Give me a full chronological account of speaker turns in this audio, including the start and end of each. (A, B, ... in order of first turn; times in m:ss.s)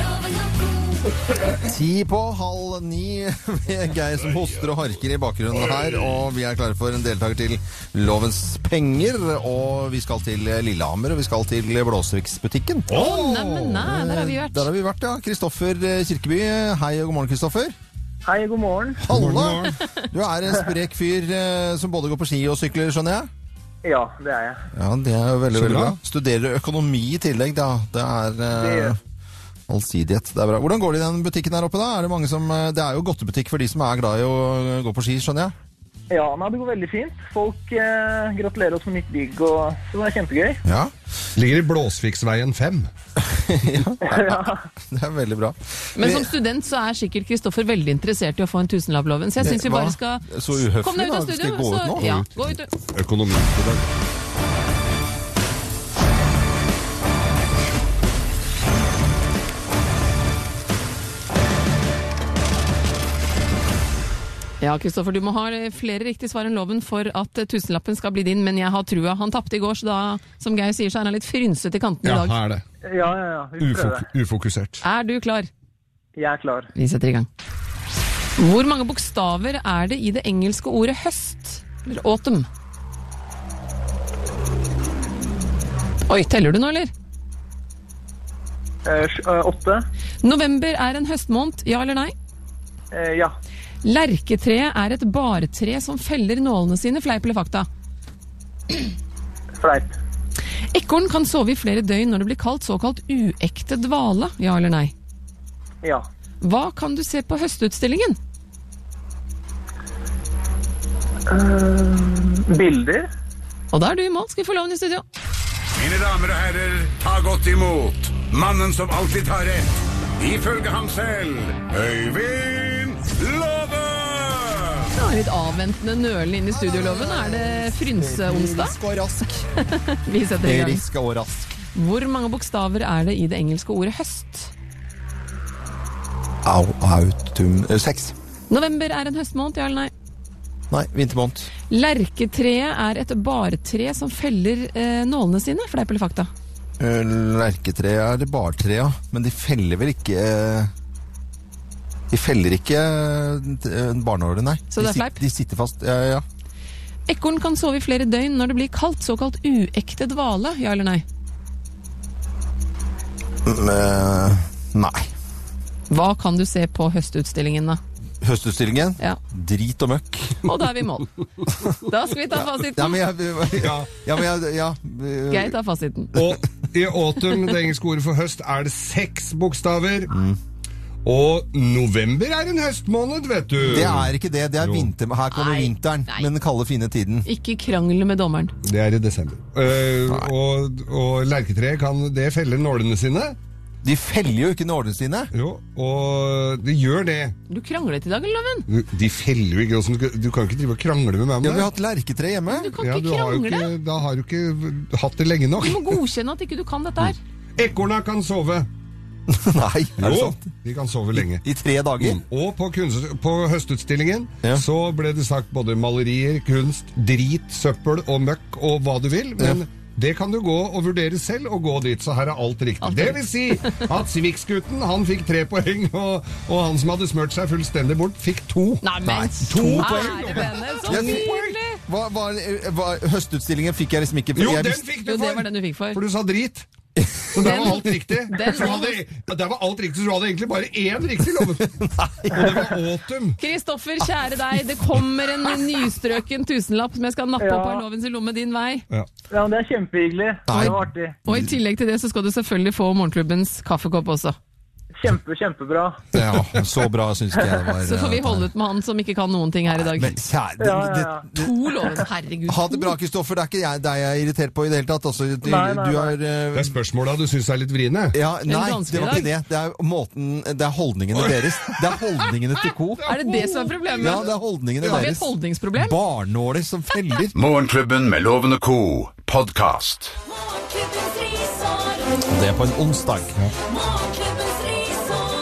0:01.5-0:12.9 A
0:12.9-0:13.8 B
0:12.9-0:14.7 C
0:13.8-0:17.8 A
0:18.3-0:19.0 D
0:19.0-0:23.3 A
0:19.1-0:19.8 B
0:23.8-0:24.6 D
0:24.7-0:29.0 A
0:25.5-0:26.0 B
0:28.5-0:28.9 D
0:29.7-0:35.5 A
0:36.1-0:40.6 D
0:40.6-0:40.9 A
0:41.4-0:42.9 B
0:43.2-0:46.3 A
0:44.0-0:44.6 D
0:46.0-0:52.7 C
0:49.4-0:52.3 A
0:52.9-0:53.9 B
1:04.6-1:12.4 C
1:12.0-1:12.6 B
1:12.9-1:14.1 D
1:13.6-1:14.8 B
1:14.8-1:15.5 C
1:16.2-1:16.7 D
1:16.8-1:17.3 C
1:18.4-1:22.5 C
1:26.1-1:26.9 C
1:28.9-1:29.8 D
1:30.2-1:32.1 C
1:32.9-1:33.3 D
1:33.8-1:37.7 C
1:39.6-1:40.0 D
1:40.7-1:44.9 C
1:46.4-1:48.2 C
1:51.3-1:53.1 D
1:53.7-1:55.0 C
1:57.4-1:59.6 E
2:00.2-2:01.2 E
2:03.1-2:03.7 E
2:04.9-2:08.8 C
2:06.5-2:09.5 A
2:09.6-2:10.8 C
2:10.4-2:11.6 A
2:11.8-2:14.5 C
2:16.4-2:18.1 A
2:18.5-2:19.9 C
2:20.7-2:21.5 A
2:21.7-2:26.3 C
2:26.8-2:30.7 A
2:32.1-2:36.2 A
2:34.7-2:35.2 C
2:37.1-2:41.0 C
2:43.4-2:45.1 A
2:45.9-2:47.8 C
2:48.2-2:50.4 A
2:50.4-2:51.1 C
2:51.7-2:53.0 C
2:52.6-2:55.6 A
2:53.5-2:53.9 B
2:55.3-2:56.1 C
2:56.2-3:00.1 B
3:00.1-3:00.4 A
3:01.0-3:04.9 B
3:03.6-3:07.3 A
3:05.3-3:06.3 C
3:07.3-3:08.5 C
3:08.6-3:13.4 B
3:13.8-3:15.3 A
3:15.3-3:17.4 B
3:17.5-3:18.7 C
3:18.7-3:21.7 B
3:21.4-3:22.7 A
3:22.5-3:23.7 C
3:22.8-3:26.0 B
3:25.6-3:27.2 C
3:27.6-3:28.7 B
3:29.3-3:30.4 A
3:30.0-3:31.4 B
3:31.2-3:32.2 A
3:32.0-3:48.8 B
3:42.8-3:43.9 C
3:48.8-3:51.8 C
3:49.0-3:54.8 A
3:49.4-3:51.6 B
3:54.4-3:56.7 B
3:55.0-3:56.0 C
3:57.0-3:57.9 A
3:57.3-4:01.8 B
3:57.4-3:59.0 C
4:01.6-4:02.8 A
4:02.3-4:03.4 B
4:03.4-4:08.8 C
4:07.4-4:07.8 D
4:09.3-4:11.2 D
4:10.5-4:11.5 A
4:11.2-4:14.4 C
4:15.0-4:16.0 D
4:16.1-4:18.5 A
4:17.8-4:20.2 C
4:19.7-4:26.8 A
4:20.6-4:21.3 D
4:21.4-4:23.0 C
4:25.4-4:26.2 D
4:26.5-4:28.2 B
4:28.1-4:33.1 A
4:28.5-4:29.3 C
4:31.2-4:31.8 B
4:33.0-4:34.2 B
4:33.1-4:34.3 C
4:34.0-4:37.4 A
4:34.8-4:36.0 C
4:37.4-4:40.2 E
4:42.2-4:43.4 A